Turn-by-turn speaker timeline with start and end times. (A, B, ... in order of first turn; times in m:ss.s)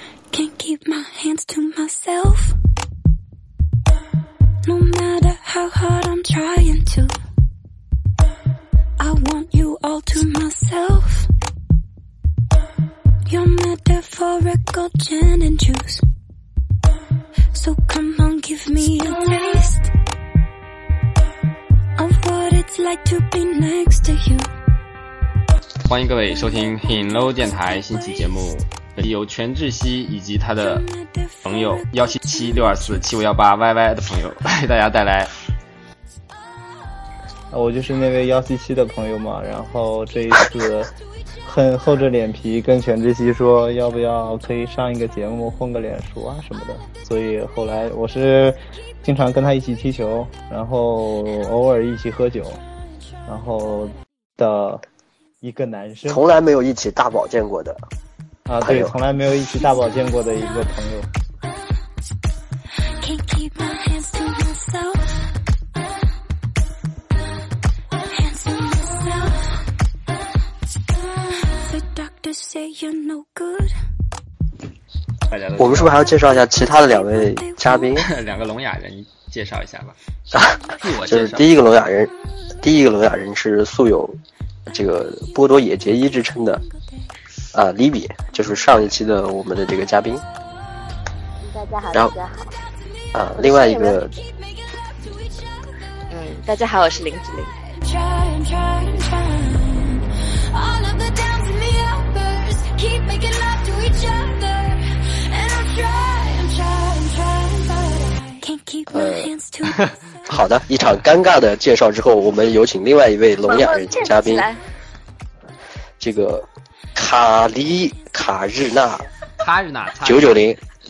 0:00.3-0:02.6 A
0:04.6-0:07.1 A
0:09.0-0:11.3 A
0:13.3-0:16.0 A
0:17.5-0:19.9 A
0:22.0-0:24.5 A
0:25.9-0:30.8 B
0:26.8-0:28.3 A
0:30.6-0:33.2 A
0:31.4-0:35.3 B
0:37.5-0:40.9 C
0:41.5-0:52.6 C
0:53.3-0:54.8 C
0:55.4-0:56.2 C
0:56.1-0:57.8 D
0:58.5-1:01.1 C
0:58.6-0:59.0 D
1:03.0-1:05.1 A
1:08.1-1:09.6 A
1:11.2-1:13.8 A
1:15.3-1:16.1 B
1:15.6-1:18.1 D
1:16.6-1:18.0 A
1:18.0-1:20.0 B
1:20.3-1:26.6 D
1:20.8-1:21.5 B
1:27.5-1:30.2 D
1:31.4-1:32.5 E
1:33.1-1:34.2 D
1:33.4-1:34.0 E
1:36.1-1:37.5 E
1:37.8-1:49.8 A
1:48.9-1:49.3 D
1:50.3-1:54.5 D
1:53.5-1:54.6 E
1:56.0-1:59.1 D
1:59.4-2:00.5 B
2:00.0-2:00.6 D